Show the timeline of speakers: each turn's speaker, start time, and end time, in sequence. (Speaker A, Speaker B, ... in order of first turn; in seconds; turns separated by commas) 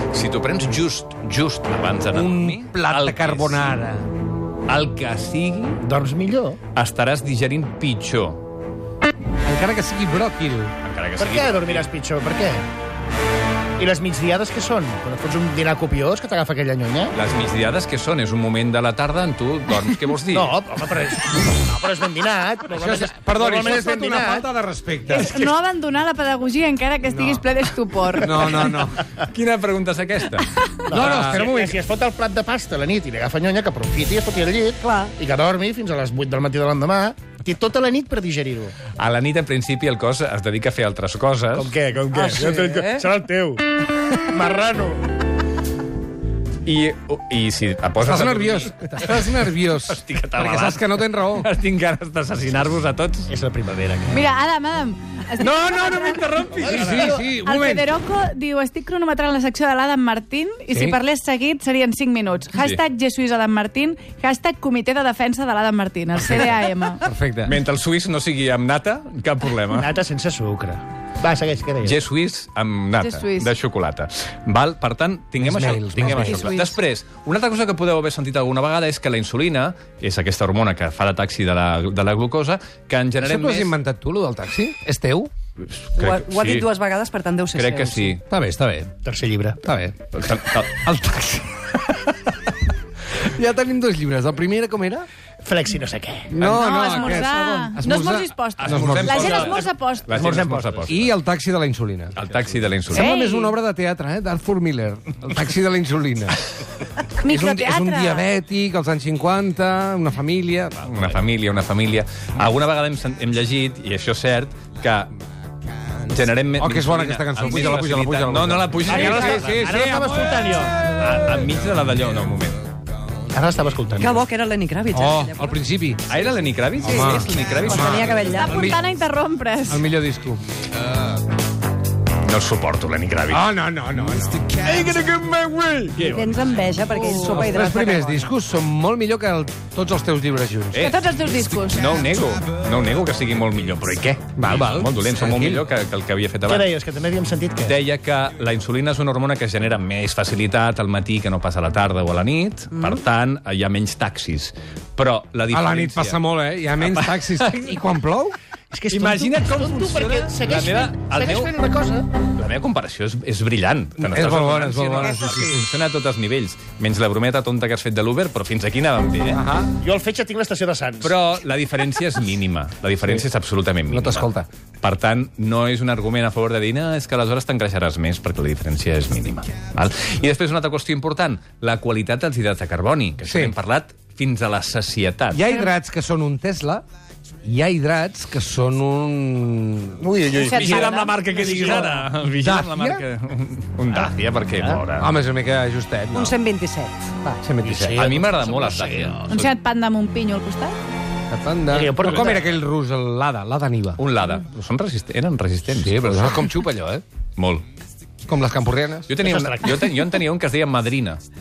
Speaker A: 0.1-3.6, Speaker B: 2.1-4.1, Speaker A: 4.7-5.8, Speaker C: 5.8-6.6, Speaker A: 6.7-8.5, Speaker B: 9.4-10.7, Speaker A: 10.8-11.9, Speaker C: 11.2-12.7, Speaker C: 13.8-17.1, Speaker A: 17.1-20.5, Speaker C: 20.3-24.5, Speaker B: 22.7-25.4, Speaker D: 25.1-28.8, Speaker A: 25.1-25.5, Speaker B: 27.1-27.4, Speaker B: 28.2-29.1, Speaker A: 29.0-31.5, Speaker C: 30.9-38.7, Speaker B: 30.9-31.8, Speaker E: 34.8-35.1, Speaker A: 39.0-41.8, Speaker C: 41.5-45.1, Speaker E: 42.1-43.0, Speaker A: 46.6-53.3, Speaker B: 48.0-51.5, Speaker C: 53.3-54.2, Speaker D: 54.1-56.3, Speaker A: 55.4-57.1, Speaker B: 56.6-57.9, Speaker C: 56.6-56.9, Speaker D: 57.0-67.0, Speaker B: 60.7-61.0, Speaker B: 66.2-67.5, Speaker A: 67.4-69.9, Speaker C: 69.7-72.0, Speaker A: 71.8-83.8, Speaker D: 73.0-73.5, Speaker B: 75.4-76.6, Speaker D: 76.0-76.7, Speaker B: 83.2-85.3, Speaker A: 85.7-86.7, Speaker E: 85.9-88.2, Speaker A: 87.5-88.2, Speaker B: 88.2-88.9, Speaker C: 89.0-89.6, Speaker B: 89.6-90.0, Speaker A: 90.1-90.9, Speaker B: 90.6-91.5, Speaker B: 93.1-95.1, Speaker C: 95.4-96.6, Speaker B: 96.3-99.5, Speaker A: 96.5-97.1, Speaker D: 96.6-100.2, Speaker A: 98.6-101.1, Speaker C: 98.8-100.9, Speaker B: 100.9-102.2, Speaker A: 102.1-103.1, Speaker B: 102.9-106.4, Speaker D: 102.9-103.5, Speaker D: 107.2-108.2, Speaker B: 107.2-110.9, Speaker A: 110.8-115.1, Speaker A: 116.0-119.7, Speaker B: 116.6-120.9, Speaker C: 118.9-120.8, Speaker A: 120.9-122.6, Speaker C: 123.3-124.2, Speaker E: 124.0-125.6, Speaker B: 124.9-126.0, Speaker A: 126.0-128.4, Speaker B: 126.8-128.8, Speaker E: 126.8-127.1, Speaker E: 127.7-128.5, Speaker D: 128.3-129.8, Speaker B: 129.6-130.5, Speaker A: 132.2-133.4, Speaker B: 133.3-134.5, Speaker A: 134.4-136.6, Speaker E: 136.1-138.2, Speaker C: 136.9-137.9, Speaker B: 137.1-141.0, Speaker A: 140.7-146.7, Speaker D: 140.8-141.8, Speaker B: 144.4-145.6, Speaker C: 146.4-147.8, Speaker A: 147.6-156.2, Speaker B: 155.5-158.3, Speaker A: 156.8-157.8, Speaker C: 158.7-162.1, Speaker A: 158.9-161.5, Speaker A: 162.3-169.4, Speaker B: 164.0-165.7, Speaker B: 169.3-169.7, Speaker C: 169.8-171.1, Speaker A: 171.0-174.3, Speaker B: 173.8-174.5, Speaker A: 174.8-185.4, Speaker B: 183.2-183.5, Speaker B: 185.3-186.8, Speaker B: 187.4-190.1, Speaker C: 190.0-191.9, Speaker A: 190.2-195.1, Speaker D: 190.4-191.3, Speaker B: 191.4-193.0, Speaker B: 195.0-196.3, Speaker E: 196.1-197.4, Speaker B: 197.4-198.1, Speaker C: 197.6-199.3, Speaker A: 197.9-199.2, Speaker D: 199.3-200.8, Speaker B: 201.3-204.0, Speaker C: 201.7-202.4, Speaker A: 202.0-202.5, Speaker A: 204.0-206.6, Speaker B: 205.7-207.0, Speaker A: 207.4-207.6, Speaker B: 208.2-209.1, Speaker A: 209.1-211.2, Speaker C: 209.2-209.8